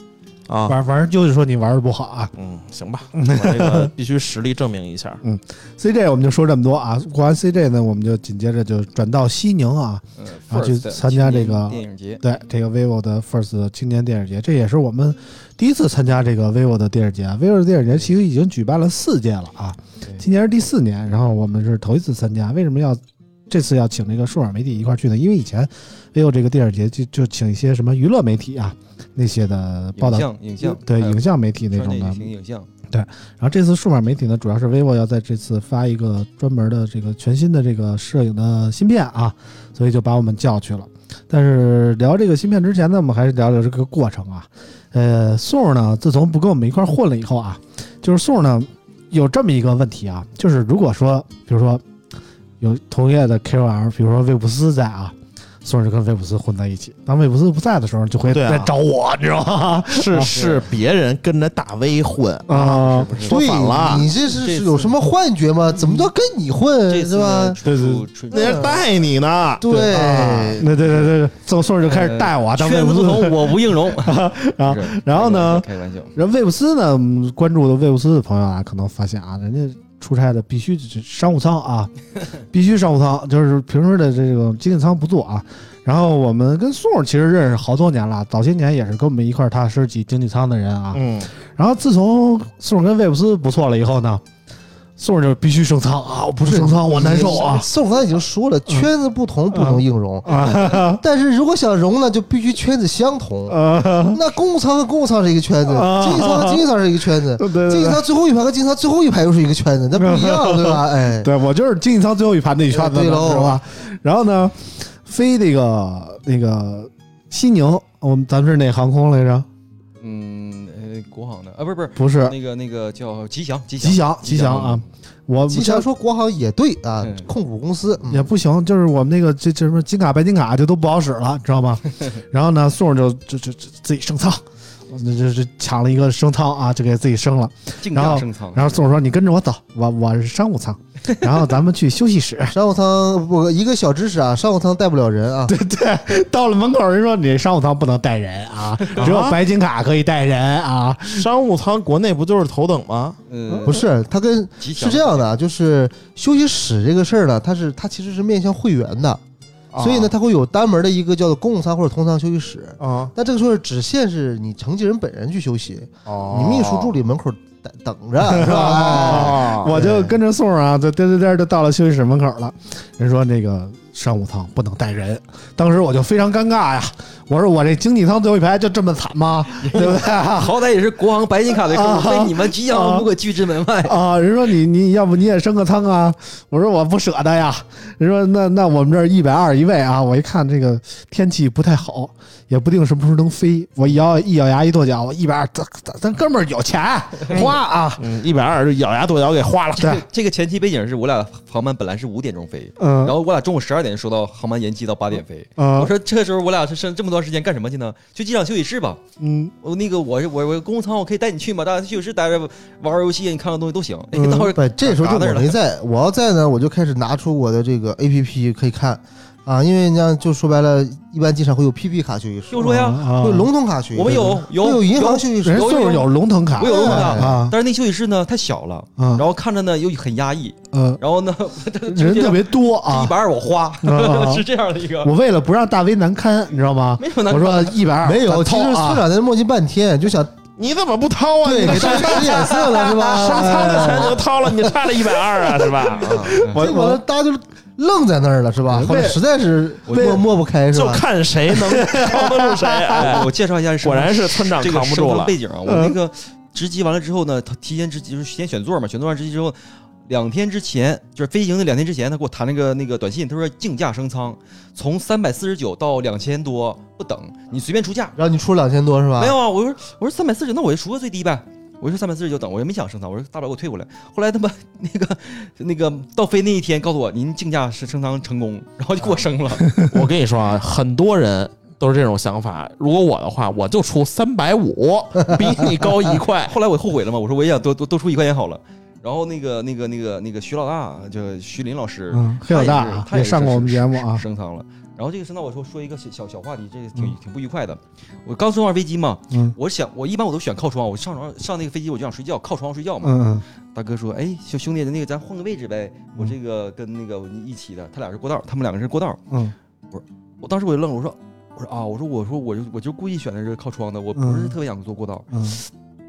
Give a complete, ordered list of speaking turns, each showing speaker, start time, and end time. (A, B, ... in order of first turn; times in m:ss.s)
0:00.5-0:00.8 A
0:00.7-0:02.3 B
0:02.4-0:05.2 A
0:03.2-0:03.9 B
0:05.2-0:32.3 B
0:10.2-0:12.2 C
0:30.0-0:32.7 C
0:32.9-0:51.8 B
0:52.6-1:00.4 B
0:58.3-0:58.7 A
0:59.9-1:04.1 A
1:00.3-1:00.7 C
1:02.5-1:03.2 B
1:02.6-1:05.0 C
1:03.2-1:07.6 D
1:06.9-1:08.8 C
1:07.6-1:08.0 B
1:08.3-1:10.5 A
1:08.3-1:08.8 D
1:09.6-1:10.7 D
1:09.8-1:21.9 B
1:11.8-1:16.2 C
1:22.5-1:31.0 B
1:30.9-1:31.3 A
1:31.6-1:34.2 B
1:35.0-1:37.7 B
1:36.4-1:51.3 D
1:39.5-1:41.0 B
1:43.5-1:44.2 B
1:45.7-1:46.7 B
1:47.4-1:48.0 B
1:49.9-1:59.5 B
1:52.7-1:53.6 D
2:00.0-2:04.8 C
2:02.0-2:02.4 B
2:03.8-2:05.9 B
2:05.5-2:08.3 D
2:07.0-2:07.3 C
2:08.1-2:22.6 B
2:17.8-2:18.8 C
2:22.5-2:25.6 D
2:25.5-2:31.3 B
2:28.8-2:29.1 C
2:29.0-2:29.4 A
2:31.1-2:33.2 A
2:33.3-2:33.8 C
2:33.5-2:33.8 B
2:33.6-2:39.2 D
2:34.6-2:35.3 C
2:39.7-2:40.1 A
2:39.8-2:50.2 D
2:42.8-2:43.1 A
2:46.1-2:47.0 A
2:48.2-3:00.6 B
2:48.6-2:49.7 A
2:59.6-3:04.0 C
3:01.6-3:03.1 B
3:03.8-3:18.0 B
3:17.3-3:20.0 A
3:19.8-3:29.0 C
3:22.8-3:23.2 B
3:25.6-3:25.9 B
3:29.2-3:29.5 B
3:29.6-3:35.6 C
3:34.1-3:34.6 B
3:34.5-3:46.0 D
3:42.5-3:43.2 C
3:42.6-3:43.5 B
3:43.9-3:55.1 C
3:44.0-3:44.4 B
3:45.3-3:47.6 B
3:46.6-3:47.4 D
3:49.0-3:49.2 B
3:50.7-3:51.0 B
3:51.9-3:53.1 B
3:53.8-3:54.5 B
3:55.0-3:59.1 B
3:57.0-3:57.8 C
3:58.0-4:00.3 D
4:00.6-4:06.4 A
4:01.4-4:05.0 D
4:01.6-4:04.1 B
4:05.9-4:11.0 D
4:06.1-4:07.0 B
4:06.4-4:06.7 C
4:08.7-4:09.2 B
4:09.9-4:10.2 C
4:09.9-4:10.2 B
4:10.7-4:13.3 A
4:11.5-4:13.2 B
4:12.9-4:28.2 C
4:13.8-4:15.3 A
4:15.7-4:16.0 B
4:28.2-4:29.4 D
4:29.2-4:39.8 C
4:39.7-4:46.5 A
4:46.4-5:09.2 C
4:52.1-4:54.2 B
5:03.0-5:03.4 B
5:09.3-5:09.6 B
5:09.9-5:15.3 C
5:14.2-5:14.6 B
5:15.3-5:15.6 B